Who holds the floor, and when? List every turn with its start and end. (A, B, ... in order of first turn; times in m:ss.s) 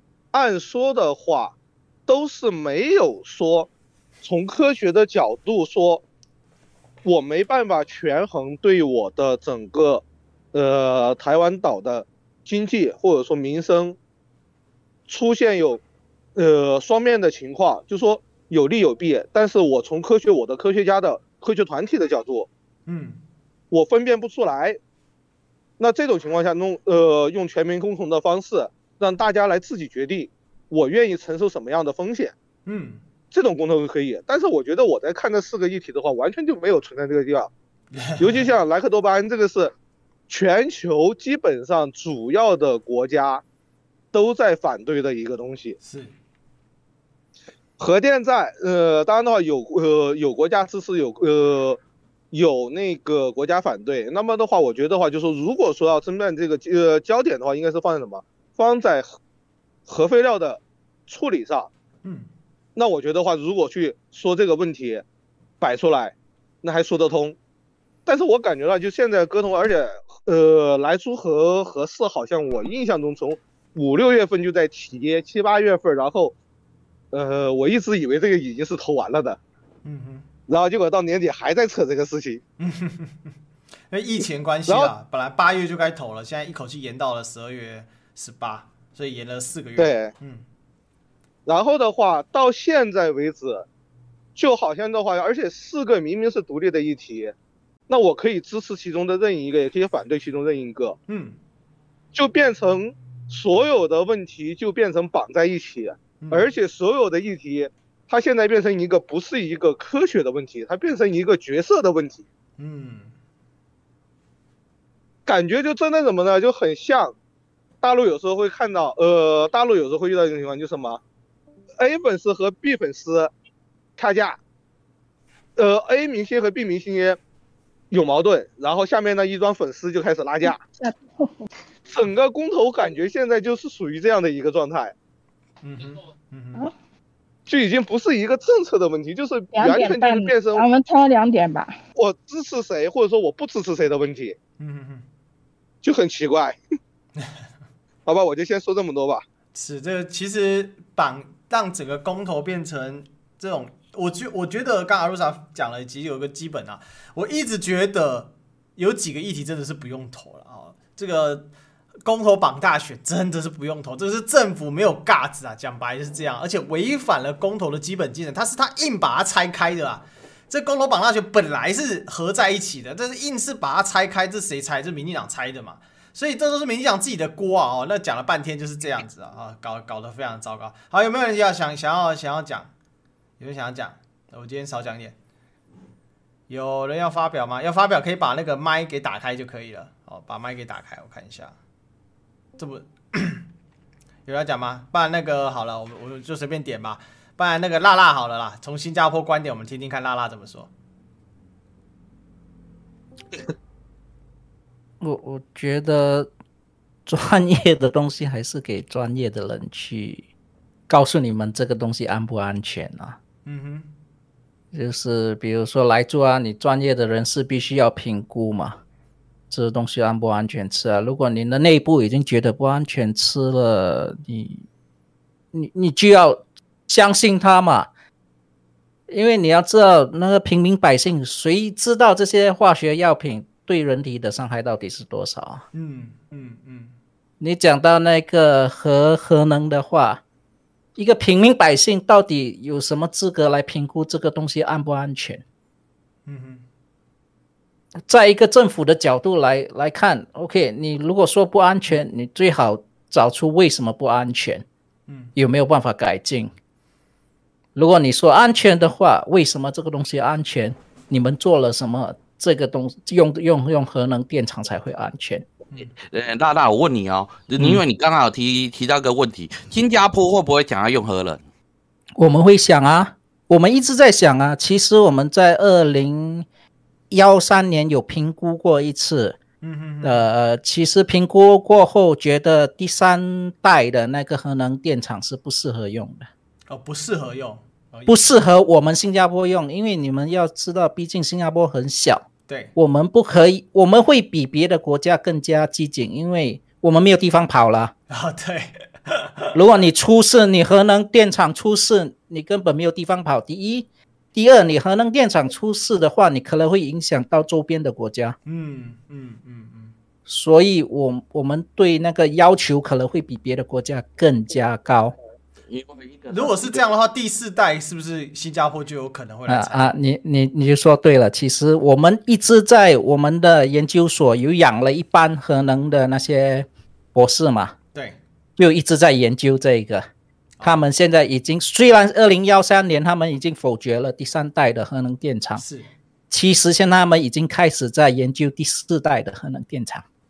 0:00.3-0:01.5 A
0:02.1-0:03.7 A
0:04.2-0:06.0 A
0:07.0-0:10.0 A
0:10.5-0:14.0 A
0:15.1-0:15.8 A
0:16.4-0:22.5 A
0:22.9-0:23.2 B
0:23.7-0:24.8 A
0:25.8-0:32.3 A
0:32.6-0:33.0 B
0:33.3-0:37.5 A
0:37.9-0:38.5 B
0:38.2-0:39.7 A
0:40.3-0:43.4 A
0:44.1-0:45.8 A
0:45.8-0:46.1 B
0:47.8-0:51.8 A
0:52.3-0:59.1 A
0:59.9-1:01.7 A
1:02.0-1:02.3 B
1:02.8-1:05.0 A
1:05.6-1:07.4 A
1:08.0-1:16.3 A
1:17.1-1:19.4 A
1:19.8-1:20.2 B
1:20.5-1:22.4 A
1:22.6-1:23.3 B
1:23.9-1:30.4 B
1:24.7-1:24.9 A
1:29.8-1:30.1 A
1:31.4-1:33.6 A
1:34.3-1:37.3 A
1:37.9-1:41.0 A
1:41.1-1:41.4 B
1:42.1-1:52.2 A
1:46.2-1:46.6 B
1:52.6-1:53.1 B
1:55.2-1:57.1 A
1:57.8-2:01.0 A
2:01.8-2:03.3 A
2:04.0-2:04.4 A
2:05.6-2:07.2 A
2:07.9-2:10.6 A
2:10.4-2:11.5 C
2:11.9-2:14.9 A
2:15.6-2:16.7 B
2:17.5-2:20.6 A
2:19.5-2:21.8 C
2:21.9-2:24.4 A
2:24.6-2:25.0 B
2:25.8-2:26.6 A
2:28.0-2:29.2 A
2:29.5-2:41.5 B
2:42.0-3:02.7 B
3:03.4-3:05.1 B
3:06.5-3:11.5 B
3:12.6-3:13.4 B
3:14.2-3:20.7 B
3:25.0-3:26.3 D
3:27.0-3:30.3 D
3:30.9-3:33.2 D
3:33.4-3:33.9 B
3:34.7-3:38.8 D
3:39.5-3:44.6 D
3:45.5-3:47.9 D
3:49.1-3:55.6 D
3:55.7-3:56.9 B
3:57.4-4:00.2 D
4:01.0-4:05.4 D
4:06.2-4:06.6 B
4:08.0-4:14.6 D
4:15.1-4:15.3 B
4:15.3-4:16.5 D
4:17.7-4:25.4 D
4:25.9-4:31.4 E
4:32.2-4:36.4 D
4:37.1-4:39.4 D
4:39.6-4:40.3 B
4:40.0-4:46.3 D
4:46.7-4:48.2 B
4:48.0-4:57.9 D
4:52.5-4:52.7 B
4:58.1-4:59.4 B
4:59.5-5:08.4 D
5:08.4-5:09.9 B
5:10.2-5:15.1 D
5:15.7-5:16.8 E
5:16.3-5:19.9 B
5:19.5-5:27.7 D
5:28.6-5:30.0 D
5:30.6-5:35.6 D
5:35.6-5:35.9 B
5:36.3-5:40.0 D